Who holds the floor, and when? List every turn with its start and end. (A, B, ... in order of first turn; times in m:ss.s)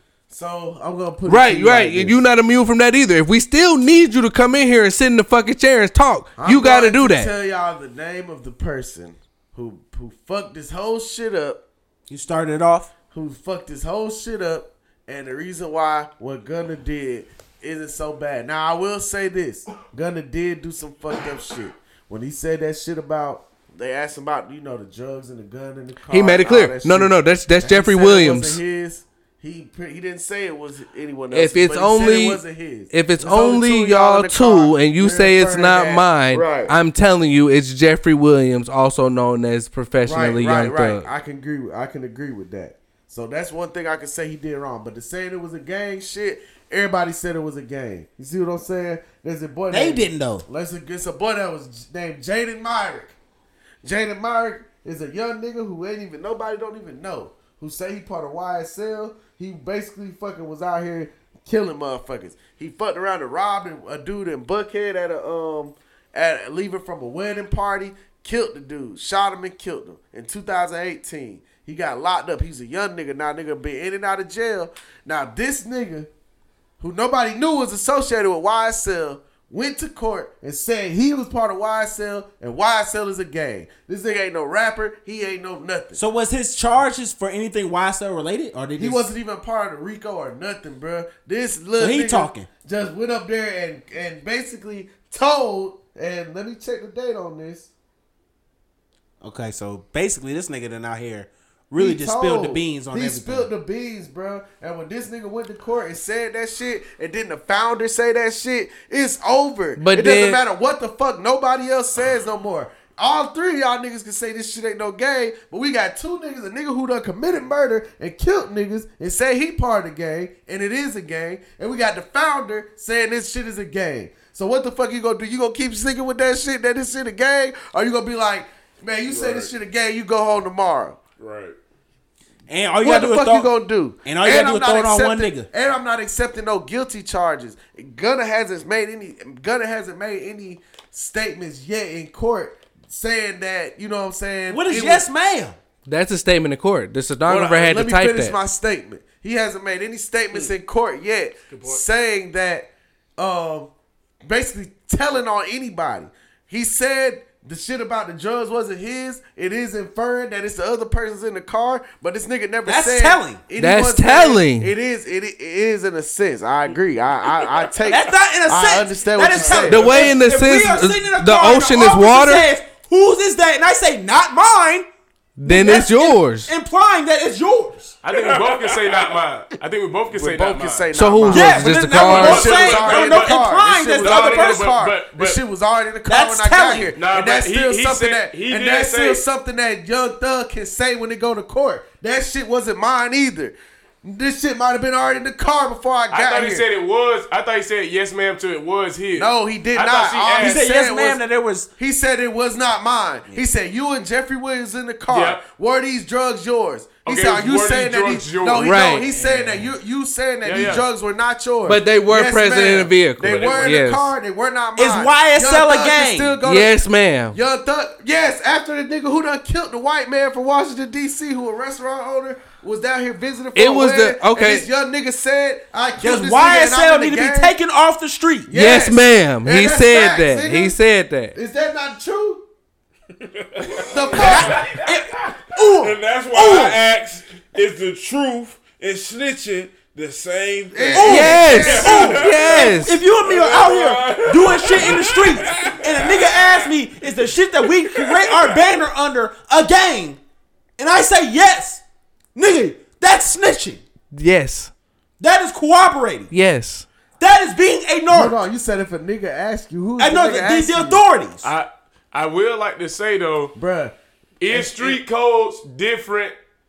0:00.3-0:02.2 A
0:01.3-0:07.3 B
0:06.4-0:11.6 A
0:12.1-0:12.9 C
0:13.1-0:36.7 A
0:26.1-0:28.6 B
0:31.3-0:41.0 B
0:40.0-0:53.1 A
0:49.7-0:50.4 C
0:53.8-1:16.1 A
1:16.8-1:26.0 A
1:25.9-1:29.0 C
1:28.8-1:37.7 A
1:31.8-1:32.5 C
1:39.2-1:43.5 C
1:41.8-2:11.0 A
1:49.8-1:50.4 B
2:09.1-2:09.5 D
2:11.2-2:11.6 D
2:12.5-2:13.5 C
2:12.8-2:25.0 A
2:14.0-2:15.5 C
2:24.5-2:25.6 C
2:25.9-2:28.4 B
2:27.2-2:33.7 A
2:31.5-2:31.8 E
2:34.2-2:50.0 A
2:42.6-2:43.4 C
2:43.6-2:44.7 B
2:47.8-2:54.9 C
2:49.3-2:50.1 D
2:49.7-2:52.5 B
2:55.4-2:56.5 B
2:55.4-2:58.0 C
2:58.0-3:00.9 E
2:58.1-2:59.2 D
3:00.1-3:16.6 A
3:00.9-3:02.5 B
3:01.3-3:04.7 C
3:02.0-3:05.4 E
3:06.1-3:06.9 C
3:06.9-3:09.2 E
3:16.1-3:20.6 E
3:19.1-3:21.2 A
3:20.4-3:21.7 C
3:21.8-3:36.7 A
3:25.1-3:25.4 E
3:27.0-3:28.8 E
3:28.6-3:29.0 B
3:29.1-3:29.7 C
3:30.4-3:30.8 E
3:31.6-3:34.1 B
3:33.2-3:33.7 E
3:34.8-3:36.4 C
3:36.4-3:37.4 B
3:37.3-3:47.5 A
3:43.5-3:44.6 B
3:46.0-3:48.5 C
3:48.5-3:50.8 A
3:48.5-3:51.4 B
3:51.3-3:52.4 A
3:53.2-3:54.6 D
3:53.8-3:54.6 A
3:54.1-3:56.8 C
3:55.7-4:06.7 D
3:56.4-3:56.7 A
4:00.7-4:02.3 A
4:01.0-4:10.2 C
4:01.0-4:03.0 B
4:07.6-4:08.6 D
4:10.8-4:11.8 C
4:12.3-4:13.8 C
4:14.1-4:14.7 B
4:15.2-4:16.3 C
4:16.3-4:16.8 B
4:17.2-4:18.4 C
4:18.1-4:21.0 A
4:20.0-4:21.5 C
4:21.4-4:23.5 E
4:23.6-4:23.9 A
4:24.4-4:26.3 E
4:24.5-4:25.0 A